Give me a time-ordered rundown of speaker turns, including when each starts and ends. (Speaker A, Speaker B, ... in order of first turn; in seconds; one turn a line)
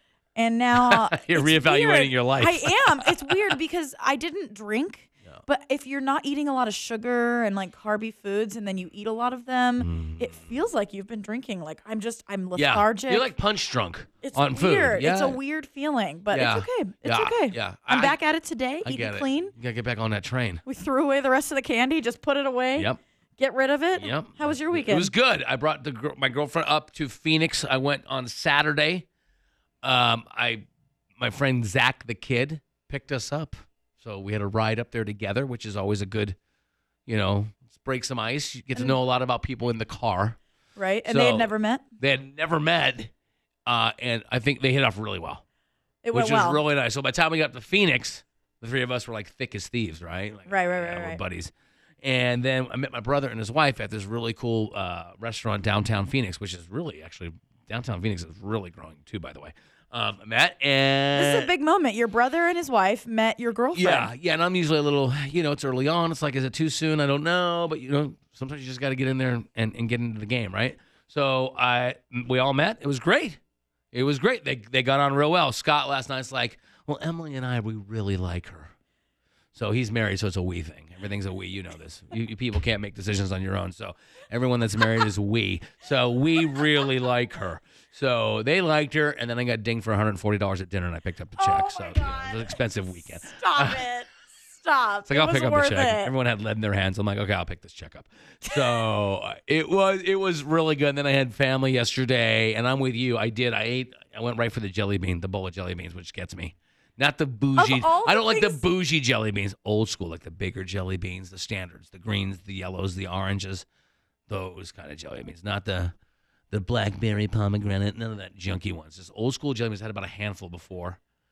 Speaker A: 0.4-13.3
Speaker B: 0.8-3.5
Speaker B: 9.8-10.5
Speaker B: 12.6-15.4
Speaker A: 14.2-19.5
Speaker B: 16.3-18.2
Speaker B: 18.8-20.6
Speaker A: 20.7-25.1
Speaker B: 22.8-23.0
Speaker B: 23.9-29.1
Speaker B: 29.8-30.7
Speaker B: 31.2-36.4
Speaker B: 37.1-40.4
Speaker A: 40.8-41.8
Speaker B: 41.1-43.1
Speaker B: 43.7-45.4
Speaker A: 46.0-46.6
Speaker B: 46.1-61.5
Speaker A: 50.5-51.2
Speaker A: 61.1-64.1
Speaker B: 63.7-73.4
Speaker B: 73.9-78.7
Speaker B: 79.5-93.8
Speaker A: 91.4-92.6
Speaker A: 93.2-96.1
Speaker B: 95.1-113.7
Speaker A: 107.6-108.7
Speaker B: 114.3-115.9
Speaker B: 116.5-121.0